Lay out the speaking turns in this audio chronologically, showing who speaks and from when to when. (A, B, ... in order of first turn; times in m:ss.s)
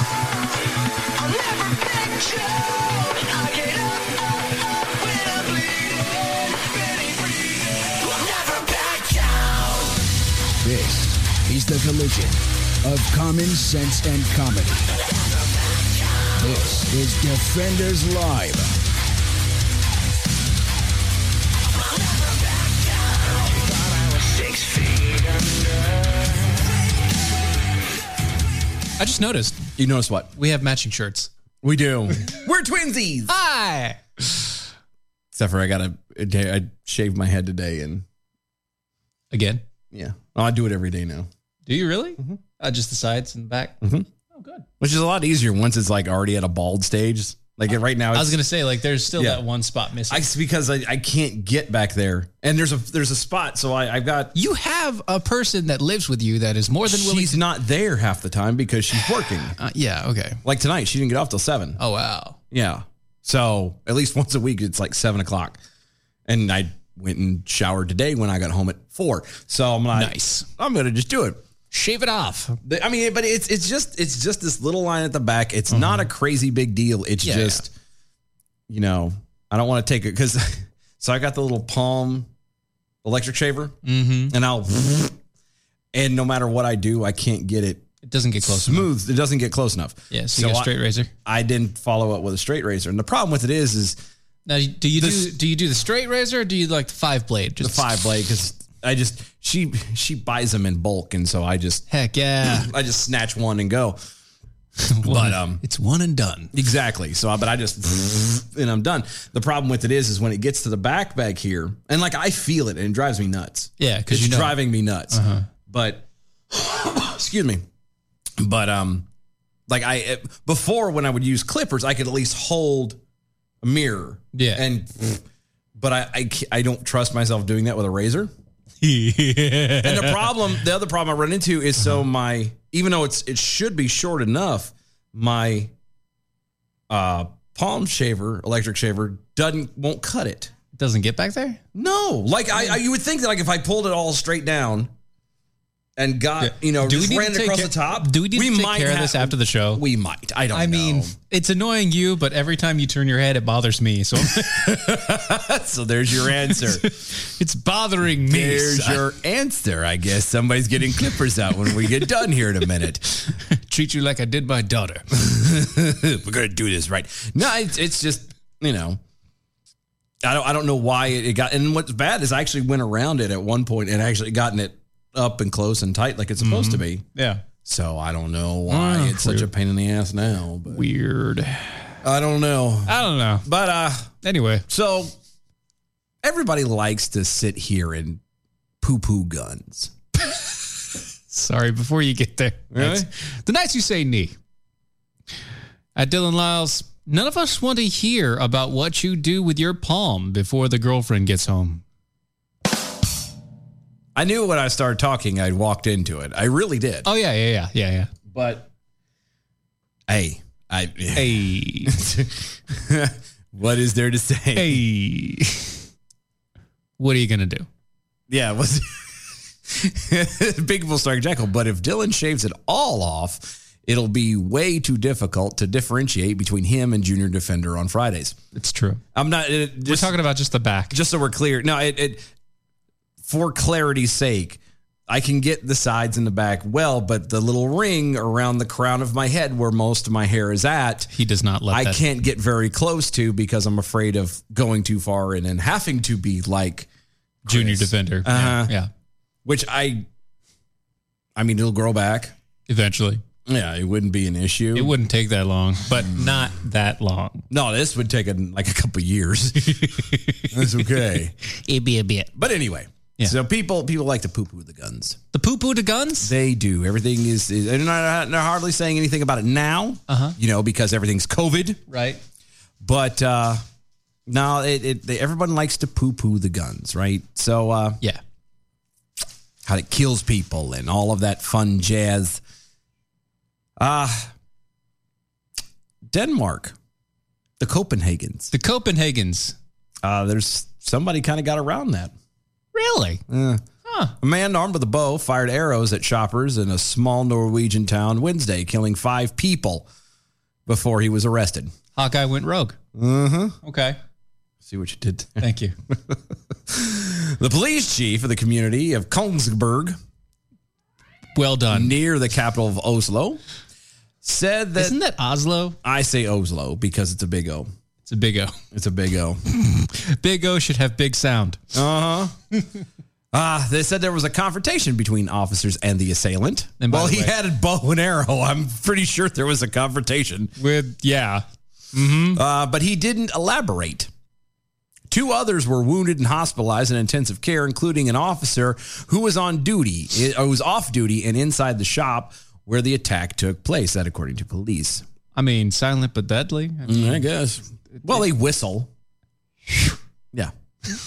0:01.2-0:10.0 A
0:10.6-0:14.9 A
0:16.3-0:18.7 A
0:22.1-0:23.0 A
0:23.8-0:25.8 A
0:29.0-0:29.7 B
0:29.8-0:30.3 C
0:30.4-0:31.3 B
0:31.6-0:33.3 C
0:33.3-0:34.0 B
0:35.3-0:38.0 C
0:39.3-0:39.6 B
0:39.9-0:41.3 C
0:41.7-0:43.8 B
0:43.8-0:44.1 C
0:44.3-0:44.6 B
0:44.8-0:48.4 C
0:48.1-0:50.3 B
0:49.1-0:49.4 C
0:50.1-0:54.3 C
0:54.4-0:57.4 B
0:56.9-0:59.6 C
0:59.6-1:00.4 B
1:00.4-1:01.8 C
1:01.8-1:02.4 B
1:02.5-1:05.6 C
1:06.3-1:11.4 C
1:09.9-1:10.5 B
1:11.7-1:12.6 B
1:12.6-1:17.7 C
1:15.7-1:16.1 B
1:17.2-1:17.6 B
1:18.7-1:22.3 C
1:23.0-1:23.8 C
1:23.8-1:24.4 B
1:24.3-1:25.2 C
1:25.9-1:27.9 C
1:28.0-1:28.9 B
1:28.4-1:30.7 C
1:30.1-1:31.1 B
1:31.2-1:34.0 C
1:34.5-1:38.0 B
1:35.0-1:35.4 C
1:37.6-1:41.8 C
1:41.9-1:42.7 B
1:42.4-1:44.0 C
1:44.8-1:46.5 B
1:45.0-1:45.6 C
1:46.5-1:57.6 C
1:53.8-1:55.5 B
1:58.4-1:59.1 C
1:59.7-2:03.0 C
2:03.6-2:05.2 C
2:04.3-2:04.6 B
2:05.8-2:08.3 C
2:08.8-2:10.4 B
2:09.8-2:15.7 C
2:16.9-2:20.5 C
2:20.8-2:21.6 B
2:21.7-2:24.9 C
2:26.0-2:31.1 C
2:26.4-2:29.8 B
2:30.5-2:35.0 B
2:34.4-2:36.9 C
2:36.4-2:39.1 B
2:38.2-2:43.1 C
2:43.3-2:45.1 B
2:45.1-2:49.0 C
2:50.2-2:57.0 C
2:56.4-2:57.4 B
2:57.6-3:00.8 C
2:58.7-2:59.5 B
3:00.7-3:02.0 B
3:02.0-3:04.1 C
3:02.9-3:03.5 B
3:04.2-3:04.6 B
3:04.7-3:05.1 C
3:06.2-3:08.2 C
3:08.8-3:10.0 C
3:11.3-3:14.4 B
3:12.7-3:13.1 C
3:16.0-3:21.8 B
3:24.2-3:27.1 C
3:27.0-3:28.1 B
3:28.3-3:28.7 C
3:30.1-3:34.8 C
3:31.1-3:32.0 B
3:34.6-3:35.8 B
3:37.0-3:37.7 B
3:38.3-3:48.4 C
3:48.6-3:49.0 B
3:49.1-3:50.2 C
3:49.9-3:51.0 B
3:50.9-3:52.3 C
3:53.2-4:01.1 C
4:01.1-4:02.0 B
4:01.7-4:06.9 C
4:07.4-4:08.7 C
4:07.5-4:08.9 B
4:09.4-4:10.1 C
4:11.4-4:12.3 C
4:12.7-4:13.2 B
4:13.5-4:14.9 C
4:14.7-4:17.4 B
4:17.5-4:21.3 C
4:19.7-4:22.3 B
4:22.4-4:25.2 C
4:25.3-4:26.3 B
4:26.2-4:31.8 C
4:30.1-4:30.4 B
4:31.9-4:32.2 B
4:32.8-4:33.6 C
4:34.3-4:38.0 C
4:39.6-4:42.4 C
4:43.8-4:44.3 C
4:46.1-4:46.8 C
4:47.6-4:48.5 C
4:48.5-4:49.6 B
4:50.0-4:52.1 C
4:52.7-4:53.2 B
4:53.3-4:53.6 C
4:53.9-4:54.2 B
4:54.2-4:59.9 C
5:00.7-5:01.7 C
5:02.0-5:02.8 B
5:03.0-5:03.6 C
5:03.6-5:04.0 B
5:04.6-5:06.2 C
5:05.4-5:05.7 B
5:06.7-5:10.0 C
5:11.4-5:12.0 B
5:11.7-5:13.4 C
5:14.2-5:15.0 C
5:14.8-5:15.8 B
5:15.8-5:17.7 C
5:18.0-5:18.6 B
5:18.7-5:19.4 C
5:19.5-5:21.6 B
5:21.7-5:22.4 C
5:23.3-5:30.5 C
5:26.8-5:27.4 B
5:30.6-5:32.4 B
5:32.3-5:34.1 C
5:35.1-5:45.0 C
5:45.4-5:47.3 B
5:46.9-5:48.9 C